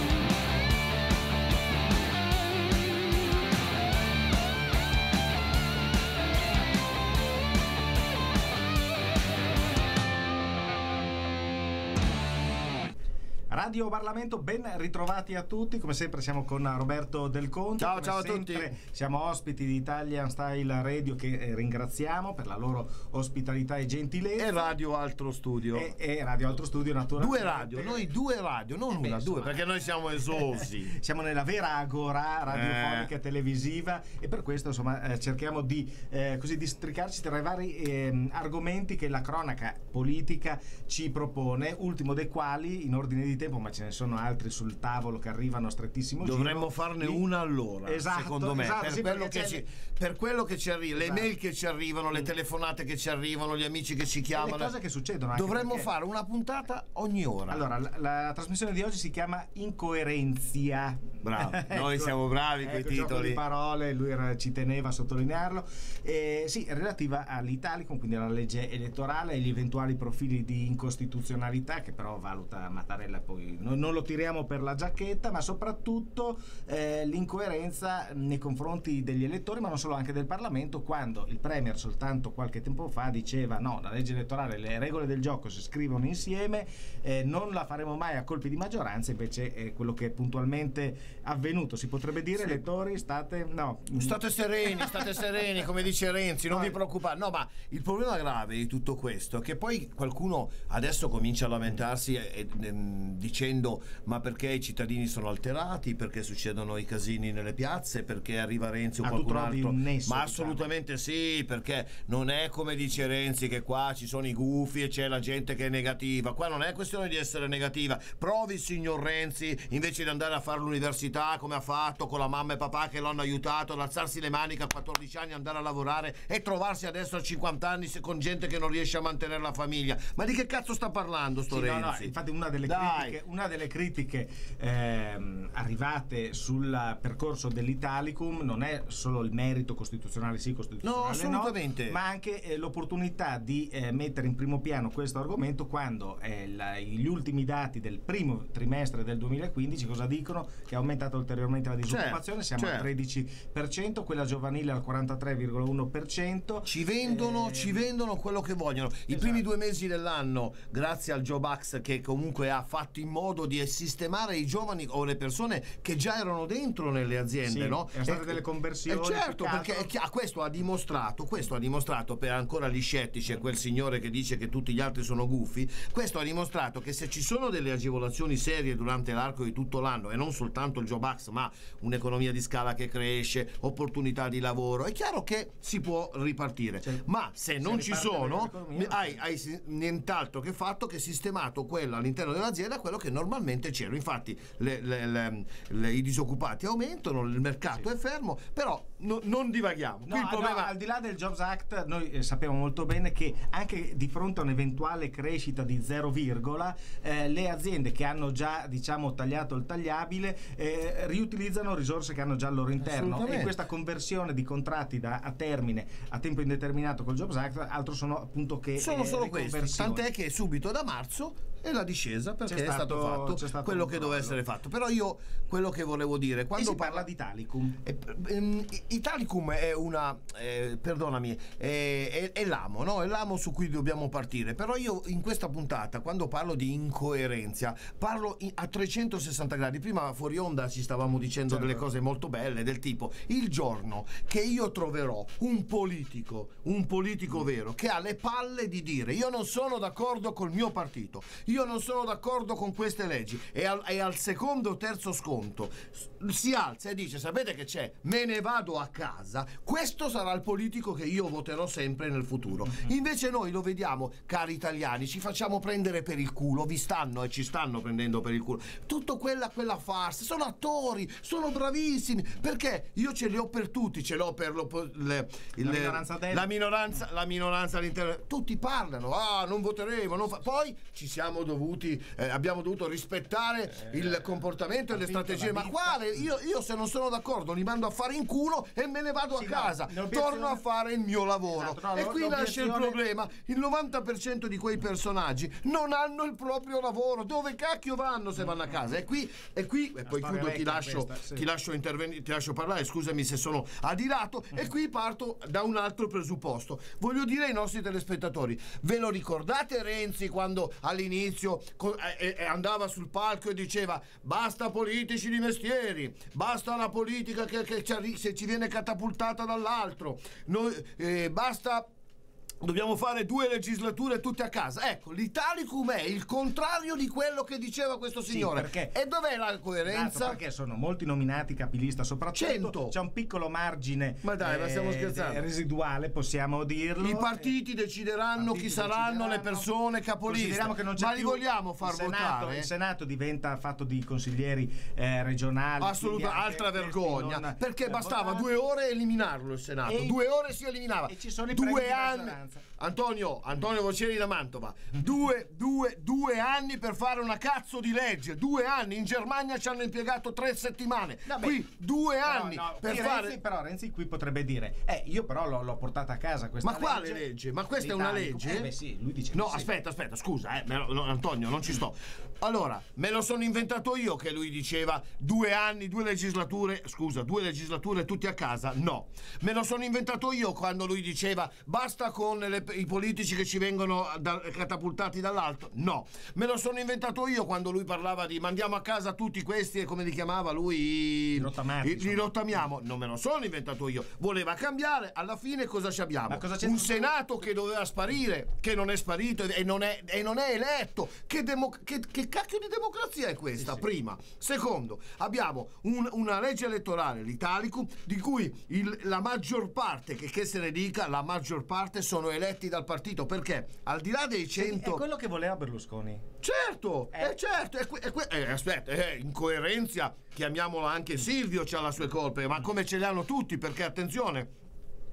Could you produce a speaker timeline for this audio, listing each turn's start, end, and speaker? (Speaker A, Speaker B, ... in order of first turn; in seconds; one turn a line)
Speaker A: 13.5-24.7
Speaker B: 17.8-18.7
Speaker B: 24.4-25.9
Speaker A: 25.7-28.1
Speaker B: 27.2-30.9
Speaker A: 28.9-47.2
Speaker B: 32.5-33.1
Speaker B: 46.2-54.7
Speaker A: 47.8-49.6
Speaker A: 50.9-51.3
Speaker A: 54.3-55.9
Speaker B: 55.3-57.6
Speaker A: 57.5-94.2
Speaker B: 61.2-63.4
Speaker B: 92.3-92.6
Speaker B: 93.9-132.1
Speaker A: 96.5-96.8
Speaker A: 109.0-110.7
Speaker A: 131.5-157.8
Speaker B: 132.6-133.2
Speaker B: 140.8-142.0
Speaker B: 151.9-152.9
Speaker B: 156.7-200.7
Speaker A: 159.1-159.4
Speaker A: 167.4-169.9
Speaker A: 187.6-189.2
Speaker A: 200.1-220.1
Speaker B: 212.8-213.5
Speaker B: 218.8-227.0
Speaker A: 222.5-224.4
Speaker A: 226.6-227.8
Speaker B: 227.8-321.9
Speaker A: 241.5-241.8
Speaker A: 275.6-276.5
Speaker A: 283.8-284.4
Speaker A: 284.9-286.2
Speaker A: 289.3-290.6
Speaker A: 291.5-293.0
Speaker A: 300.0-301.4
Speaker B: 322.6-330.4
Speaker A: 328.3-328.9
Speaker A: 329.8-337.5
Speaker B: 332.3-332.9
Speaker B: 334.2-335.4
Speaker B: 337.0-342.7
Speaker A: 338.4-339.7
Speaker A: 340.2-348.7
Speaker B: 345.8-363.4
Speaker A: 349.8-350.2
Speaker A: 351.0-352.6
Speaker A: 361.2-361.6
Speaker A: 362.2-367.2
Speaker B: 366.6-368.7
Speaker A: 367.8-369.7
Speaker B: 369.3-415.0
Speaker A: 391.3-392.6
Speaker A: 396.3-397.1
Speaker A: 414.5-416.2
Speaker B: 416.4-424.5